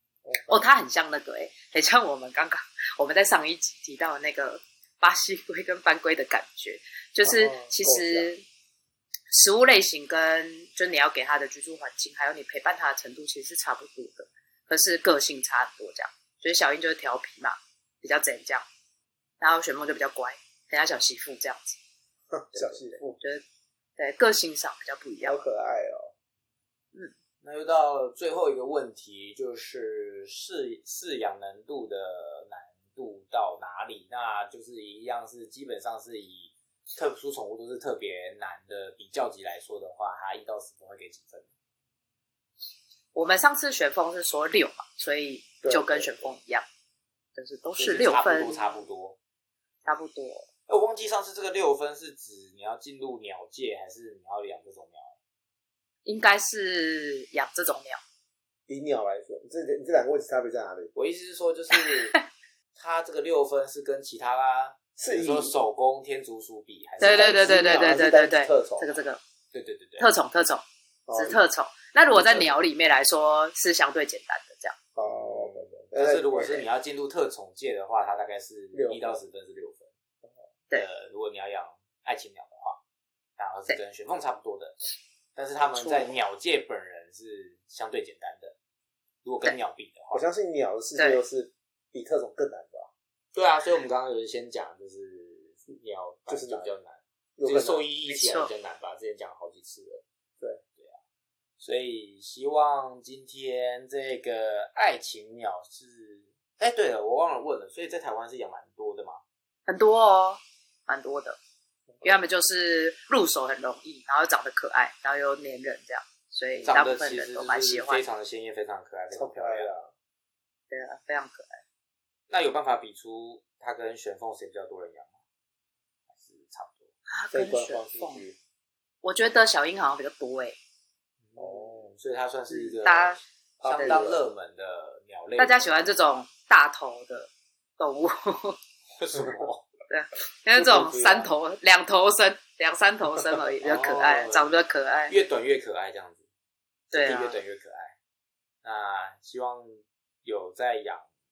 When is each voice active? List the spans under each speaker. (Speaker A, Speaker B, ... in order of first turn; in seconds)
Speaker A: 0.2-0.7, 7.2-8.3, 22.3-23.2, 25.2-26.1, 45.6-46.3, 58.7-60.9, 65.0-65.5, 67.0-69.0, 71.1-71.4, 75.0-76.7, 78.7-79.2, 90.1-92.9, 96.3-96.7, 97.4-97.8, 111.9-112.2, 119.1-119.9, 127.3-128.4, 131.4-131.9, 133.6-134.2
Speaker B: 0.5-8.4, 9.3-18.6, 19.4-21.8, 22.5-23.4, 24.0-25.4, 43.1-46.6, 47.4-48.8, 49.9-50.5, 56.0-58.0, 61.9-62.2, 67.0-69.2, 70.0-70.6, 71.2-74.8, 98.1-98.5, 109.7-111.4, 112.0-118.0, 120.7-121.6, 127.1-128.2, 129.0-130.6, 132.5-133.2, 135.4-138.6, 139.9-145.2, 146.9-147.4
Speaker C: 27.4-41.5, 47.8-49.2, 50.7-55.2, 61.0-62.2, 62.8-68.0, 69.5-70.1, 75.0-79.9, 80.7-82.8, 83.4-84.8, 85.3-88.5, 89.2-90.2, 93.3-100.0, 101.6-109.2, 116.7-119.7, 122.3-125.2, 126.1-126.9, 131.2-135.8, 138.9-139.7, 140.6-141.3, 143.6-144.5, 145.1-146.2, 146.9-147.9, 148.6-151.1